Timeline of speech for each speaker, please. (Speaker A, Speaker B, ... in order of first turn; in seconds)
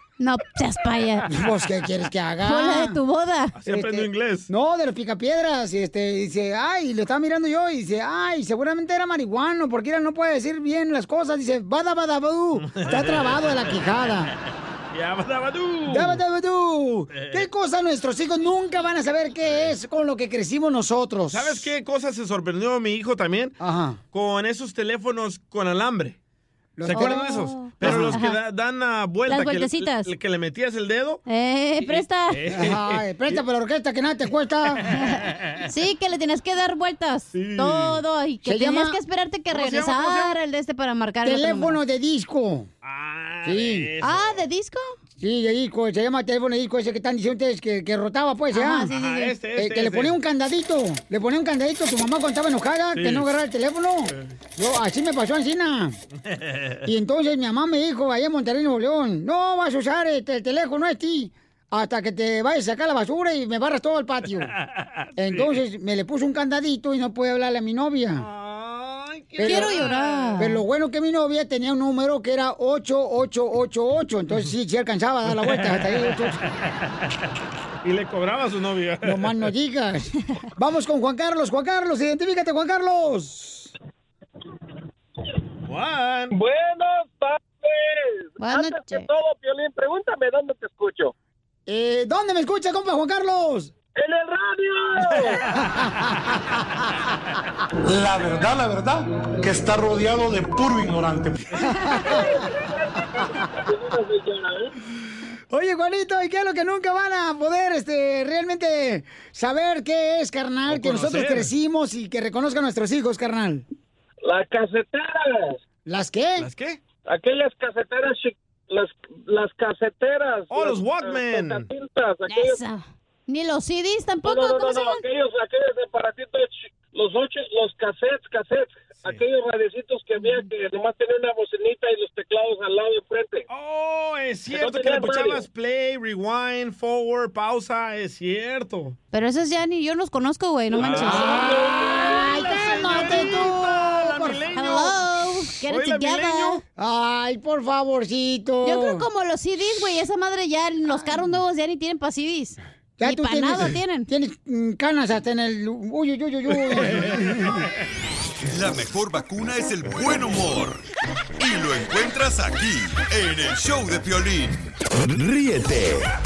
Speaker A: 0.2-1.3, 2.4-3.5, 26.9-28.4, 29.3-30.1, 31.2-32.4, 34.9-41.8, 44.0-44.9, 48.5-49.4, 69.4-70.6, 88.4-89.1, 122.3-125.0, 139.1-141.4, 144.5-146.6, 148.6-154.1
Speaker B: 1.3-3.0, 3.7-14.3, 15.9-21.7, 23.6-24.0, 26.8-28.2, 32.5-34.9, 38.4-39.0, 41.2-42.7, 43.4-43.9, 45.2-48.9, 49.5-56.0, 56.8-64.5, 65.2-68.3, 69.4-69.8, 70.4-76.4, 79.0-83.7, 91.7-93.7, 95.6-96.4, 101.6-102.4, 105.5-113.6, 115.8-116.5, 140.8-144.8, 146.8-149.0, 150.9-151.2, 153.0-157.6
Speaker C: 3.5-4.5, 12.6-13.7, 14.9-16.2, 17.1-17.4, 21.3-23.6, 24.1-26.2, 26.9-31.2, 31.8-33.3, 35.3-35.6, 37.3-38.0, 39.5-40.3, 42.8-44.4, 48.9-50.2, 52.9-53.3, 56.4-56.8, 64.8-65.5, 68.2-70.4, 75.3-76.1, 77.8-79.3, 85.6-86.3, 95.2-95.6, 110.7-111.5, 116.4-116.8, 120.5-121.7, 133.5-139.0, 140.7-145.0, 145.6-146.6
Speaker D: 86.3-91.1, 94.0-95.4, 102.1-104.7, 114.2-115.6, 117.0-122.6, 124.2-133.4, 134.5-135.4
Speaker E: 98.0-101.3
Speaker F: 158.5-160.8, 161.4-166.1